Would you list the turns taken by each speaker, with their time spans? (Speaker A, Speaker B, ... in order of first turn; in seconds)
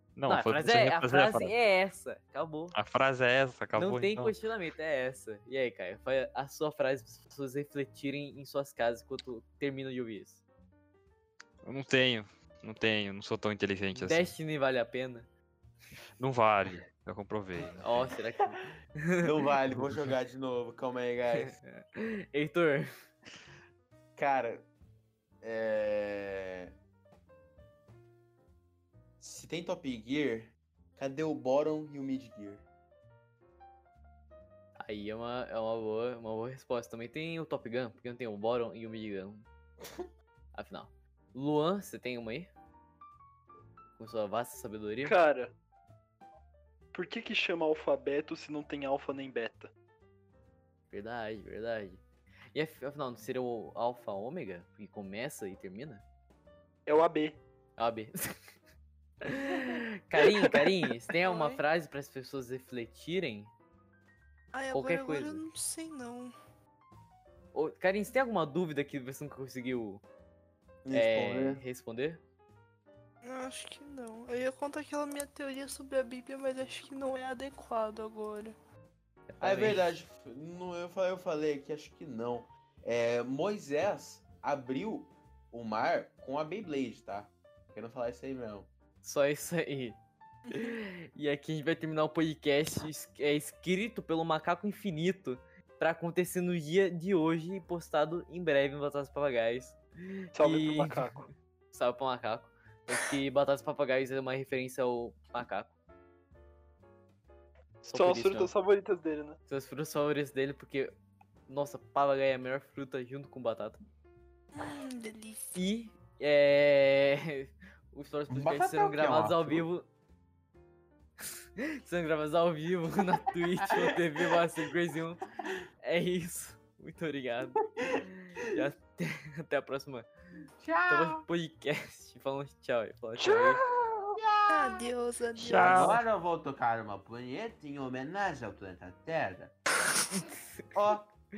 Speaker A: 0.1-1.5, 2.7-4.3, 11.6-14.3, 16.2-17.8, 135.4-136.0
Speaker B: 0.3-2.8, 3.7-10.4, 13.9-15.3, 17.8-19.3, 21.4-22.9, 34.8-39.5, 40.5-42.5, 44.0-45.2, 50.9-56.0, 57.8-58.4, 59.2-63.5, 64.7-65.4, 67.5-70.0, 70.9-72.2, 79.3-80.0, 89.0-101.0, 101.7-105.7, 107.8-108.5, 109.5-111.0, 111.5-113.8, 115.5-119.9, 121.6-125.2, 125.8-130.1, 130.9-133.6, 140.1-140.6
Speaker C: 19.2-21.5, 24.1-24.7, 25.4-26.7, 29.2-32.6, 70.8-71.6, 79.4-88.7, 118.3-119.7, 123.6-124.0, 130.6-131.2, 133.8-134.9, 135.4-139.5, 140.7-141.1
Speaker D: 45.0-45.5, 46.9-49.7, 56.9-57.4, 60.2-60.7, 100.3-101.3, 107.9-109.4, 133.2-133.5
Speaker E: 61.2-61.6, 64.5-66.3, 73.2-78.5, 114.5-115.6, 134.5-136.0